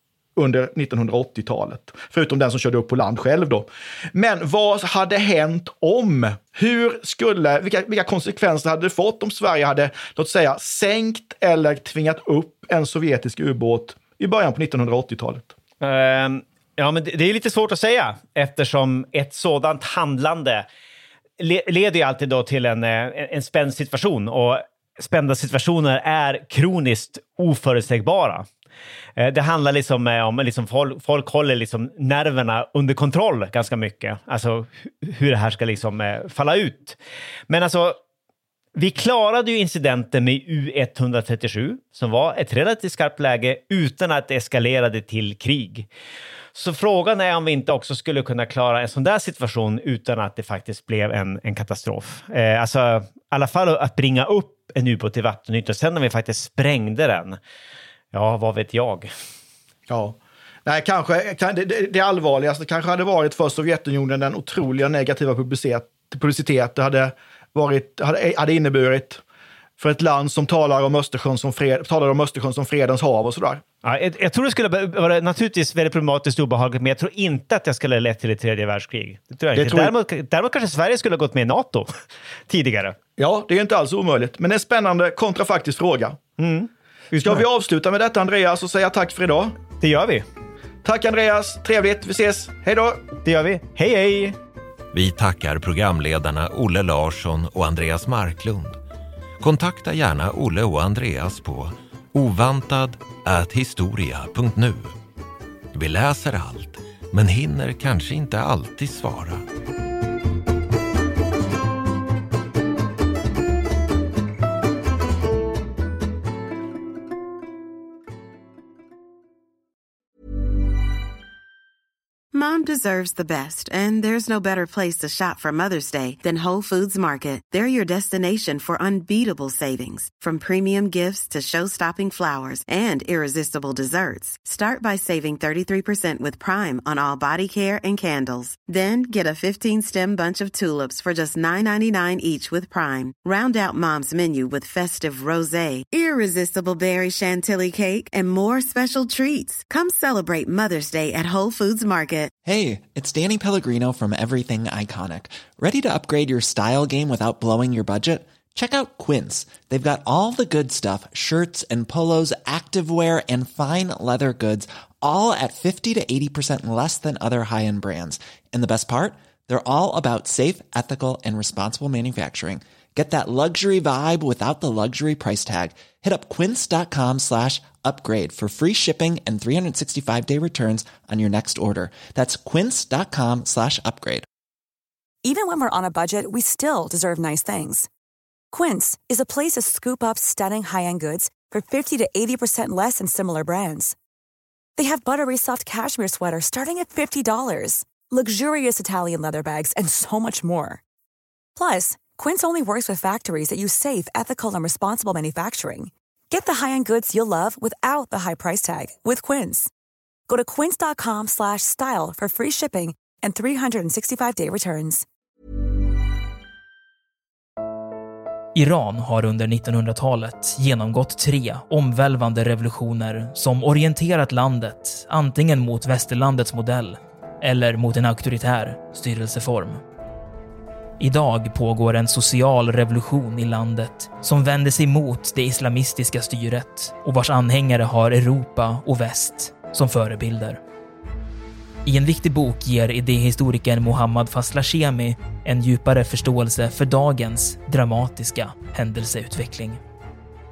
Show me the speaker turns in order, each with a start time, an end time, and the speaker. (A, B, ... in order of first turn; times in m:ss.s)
0:00.4-0:15.5 A
0:15.8-0:20.6 B
0:21.4-0:28.5 B
0:29.2-0:37.0 B
0:37.5-0:38.0 B
0:38.7-0:45.9 B
0:46.6-0:57.4 B
0:58.1-0:59.1 B
0:59.9-1:09.2 A
1:09.8-1:13.6 A
1:13.8-1:21.9 B
1:19.5-1:19.9 A
1:22.5-1:23.0 B
1:23.2-1:26.2 A
1:26.4-1:27.4 B
1:27.2-1:29.6 A
1:29.8-1:30.3 B
1:30.8-1:33.1 A
1:33.2-1:34.4 B
1:34.9-1:38.8 C
1:39.4-1:44.9 C
1:45.7-1:49.4 C
2:02.3-2:32.3 D
2:32.4-3:04.3 E
3:05.2-3:07.9 F
3:08.5-3:14.0 F
3:14.8-3:20.8 F
3:21.6-3:29.7 F
3:30.3-3:35.0 F
3:38.6-3:49.8 G
3:51.0-4:00.6 G
4:01.9-4:09.8 G